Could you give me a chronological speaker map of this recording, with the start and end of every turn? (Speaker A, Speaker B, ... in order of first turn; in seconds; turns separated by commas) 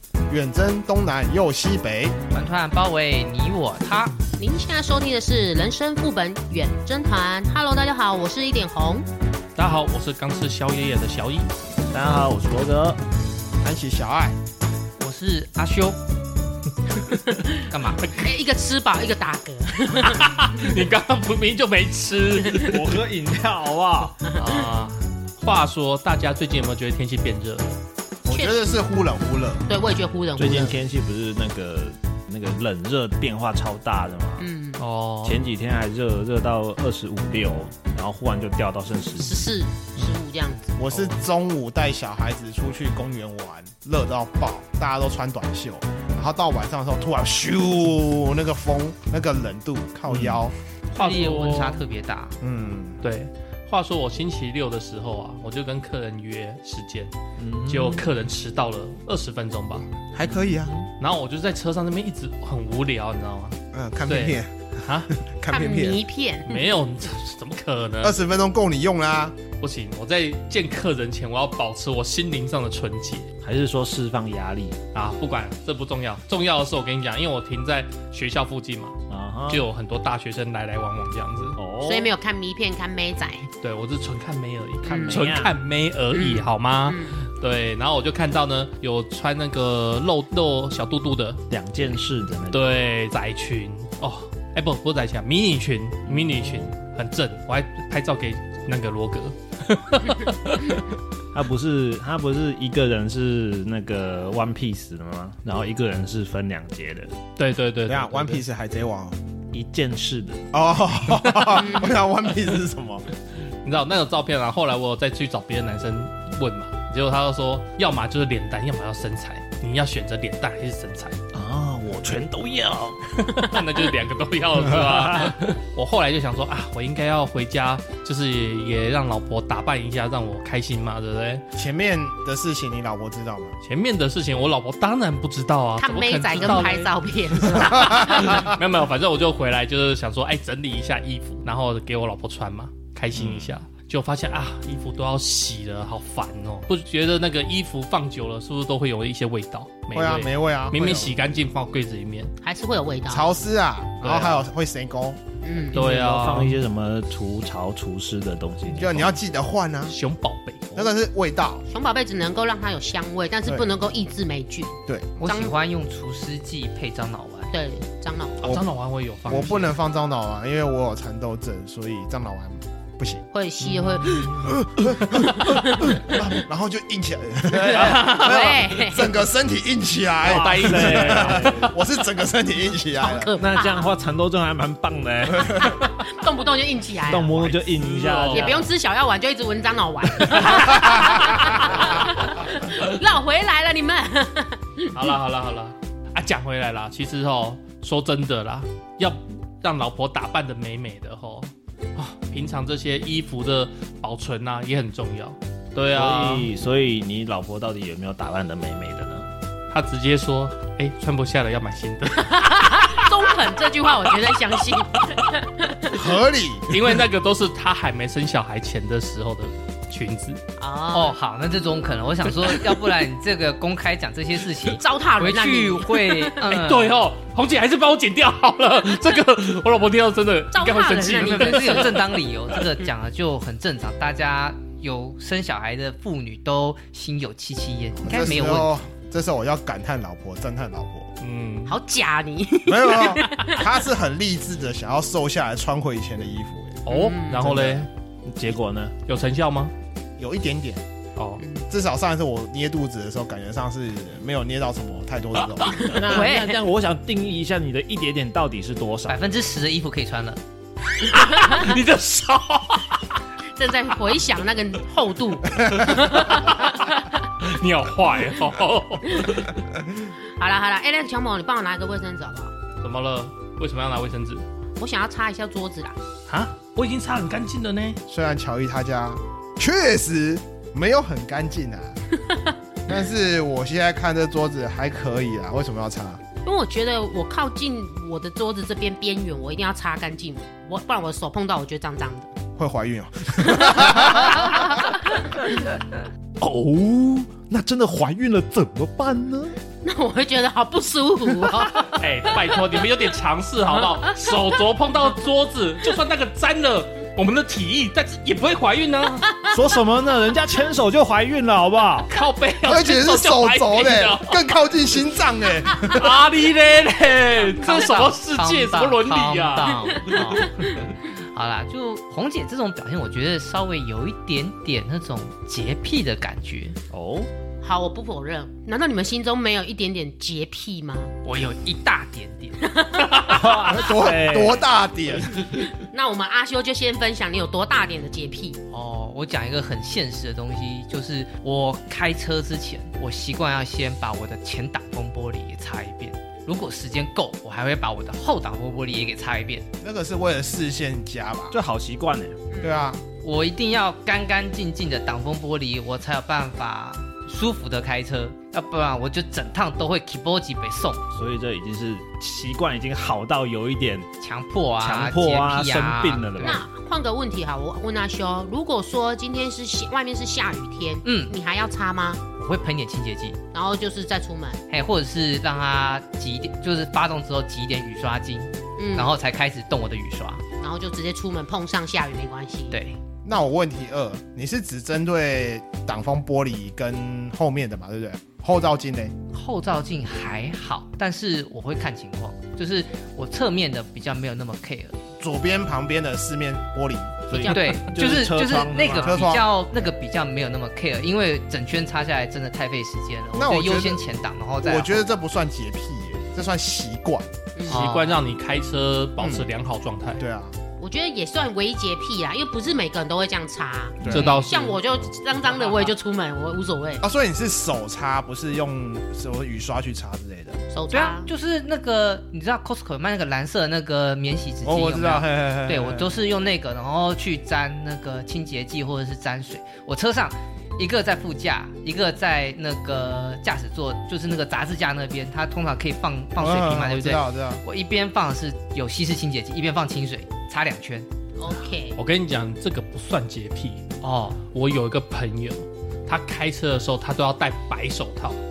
Speaker A: 0.3-2.1, Speaker B: 2.3-4.1, Speaker C: 4.4-9.0, Speaker D: 9.6-11.5, Speaker E: 11.9-13.0, Speaker A: 13.6-14.4, Speaker B: 15.0-16.0, Speaker B: 17.7-18.0, Speaker D: 18.0-18.3, Speaker C: 18.1-20.8, Speaker D: 20.0-22.9, Speaker E: 22.6-24.1, Speaker C: 24.3-24.7, Speaker D: 24.3-27.8, Speaker A: 28.2-29.7, Speaker C: 28.3-28.6, Speaker C: 29.7-30.8, Speaker E: 30.4-34.5, Speaker C: 34.4-34.8, Speaker D: 34.8-35.4, Speaker E: 35.2-39.4, Speaker C: 39.2-40.7, Speaker A: 40.8-50.5, Speaker E: 50.1-50.4, Speaker D: 50.9-51.8, Speaker B: 50.9-52.4, Speaker A: 52.4-53.0, Speaker D: 53.0-57.1, Speaker E: 57.4-58.1, Speaker D: 57.7-59.9, Speaker A: 60.0-60.7, Speaker D: 61.0-65.1, Speaker A: 63.7-66.0, Speaker C: 65.5-66.8, Speaker D: 66.5-68.2, Speaker A: 68.0-69.4, Speaker D: 69.6-73.3, Speaker E: 73.4-74.8, Speaker D: 74.9-79.0, Speaker E: 79.1-79.7, Speaker D: 79.5-81.5, Speaker E: 81.5-82.1, Speaker C: 81.8-83.5, Speaker D: 83.6-92.0, Speaker C: 84.8-85.2, Speaker E: 84.8-85.5, Speaker C: 86.1-87.2, Speaker E: 91.6-92.7, Speaker D: 92.5-100.8, Speaker E: 96.0-96.7, Speaker E: 101.3-107.1, Speaker D: 107.4-108.4, Speaker A: 107.9-109.2, Speaker E: 109.5-110.5, Speaker A: 110.5-113.0, Speaker D: 111.2-111.5, Speaker C: 111.6-111.9, Speaker D: 113.6-121.2, Speaker E: 121.3-123.4, Speaker D: 123.2-131.4, Speaker E: 124.7-125.4, Speaker A: 131.5-133.6, Speaker D: 133.6-152.3, Speaker C: 135.8-138.5, Speaker A: 137.7-138.5, Speaker A: 143.1-143.5, Speaker A: 149.9-151.1, Speaker C: 152.4-153.3, Speaker A: 153.1-155.2, Speaker D: 154.0-154.4, Speaker C: 155.4-155.8, Speaker E: 155.7-159.1, Speaker D: 155.7-156.6, Speaker A: 158.7-159.9, Speaker D: 159.9-160.6, Speaker A: 160.7-161.7, Speaker C: 161.7-165.5, Speaker A: 163.4-163.7, Speaker A: 164.9-165.2, Speaker B: 165.2-167.5, Speaker C: 167.5-168.6, Speaker D: 168.4-169.7, Speaker A: 169.3-173.2, Speaker C: 173.3-174.2, Speaker A: 174.1-183.3, Speaker C: 175.3-176.0, Speaker E: 177.5-178.1, Speaker D: 177.7-178.6, Speaker C: 177.9-179.1, Speaker D: 180.2-181.7, Speaker E: 180.2-181.7, Speaker C: 183.0-183.9, Speaker E: 183.4-185.7, Speaker A: 185.4-185.7, Speaker C: 185.6-187.6, Speaker E: 187.1-188.7, Speaker D: 187.6-188.7, Speaker C: 188.3-195.1, Speaker A: 190.5-191.8, Speaker D: 194.9-206.5, Speaker E: 205.9-209.3, Speaker D: 209.7-212.9, Speaker C: 212.2-216.1, Speaker A: 215.9-216.8, Speaker D: 216.7-220.4, Speaker C: 220.6-221.1, Speaker B: 220.9-227.0, Speaker C: 224.6-226.3, Speaker D: 226.4-232.0, Speaker C: 230.5-232.0, Speaker B: 231.1-238.8, Speaker A: 238.0-241.1, Speaker D: 241.2-241.8, Speaker C: 241.7-243.7, Speaker A: 242.7-246.9, Speaker D: 246.8-247.9, Speaker C: 246.9-247.5, Speaker A: 247.4-247.9, Speaker E: 248.2-248.9, Speaker D: 249.1-249.7, Speaker A: 250.2-250.8, Speaker D: 251.2-251.4, Speaker C: 251.4-251.6, Speaker A: 251.7-255.9, Speaker C: 255.6-256.6, Speaker E: 255.8-259.3, Speaker B: 259.1-260.4, Speaker C: 261.1-261.8, Speaker D: 261.2-263.2, Speaker C: 263.5-267.1, Speaker D: 265.9-266.9, Speaker D: 267.4-269.6, Speaker C: 270.4-272.5, Speaker D: 272.8-274.4, Speaker C: 274.8-276.0, Speaker D: 276.3-278.0, Speaker A: 278.1-282.0, Speaker A: 282.9-286.2, Speaker C: 286.4-292.3, Speaker A: 292.6-294.7, Speaker C: 293.4-294.9, Speaker E: 296.4-299.5, Speaker C: 299.8-302.1, Speaker D: 301.9-309.4, Speaker E: 309.5-312.1, Speaker D: 312.1-314.4, Speaker A: 312.6-316.2, Speaker D: 315.8-320.4, Speaker B: 317.6-320.8, Speaker B: 321.3-326.8, Speaker E: 326.9-327.3, Speaker C: 327.6-331.1, Speaker B: 331.2-332.6, Speaker C: 332.6-333.7, Speaker E: 333.2-334.6, Speaker A: 333.6-335.4, Speaker E: 335.3-335.6, Speaker C: 335.5-338.6, Speaker B: 338.7-349.7, Speaker A: 349.8-351.6, Speaker E: 351.5-352.4, Speaker C: 352.5-352.9, Speaker A: 352.6-353.0, Speaker B: 353.2-361.0, Speaker E: 361.1-364.1, Speaker B: 364.2-366.6, Speaker E: 364.8-366.6, Speaker C: 366.4-372.2, Speaker B: 371.0-371.3, Speaker B: 372.4-373.4, Speaker C: 373.5-374.6, Speaker B: 374.7-380.4, Speaker C: 378.8-379.1, Speaker C: 380.6-382.8, Speaker B: 382.7-383.0, Speaker A: 383.2-389.1, Speaker B: 389.3-395.0, Speaker A: 395.2-397.6, Speaker C: 397.3-397.8, Speaker E: 397.4-399.3, Speaker B: 397.5-405.0, Speaker A: 398.9-399.5, Speaker A: 403.3-404.0, Speaker A: 404.6-407.3, Speaker C: 407.5-407.9, Speaker D: 407.6-410.2, Speaker B: 407.7-408.2, Speaker A: 409.2-409.5, Speaker A: 410.2-410.6, Speaker C: 410.8-417.0, Speaker A: 414.0-414.3, Speaker D: 414.1-414.8, Speaker A: 417.0-420.6, Speaker C: 420.7-421.3, Speaker B: 420.9-441.1, Speaker A: 424.6-426.0, Speaker A: 436.4-437.6, Speaker C: 441.4-442.0, Speaker D: 441.9-443.8, Speaker B: 444.0-444.4, Speaker D: 444.5-448.4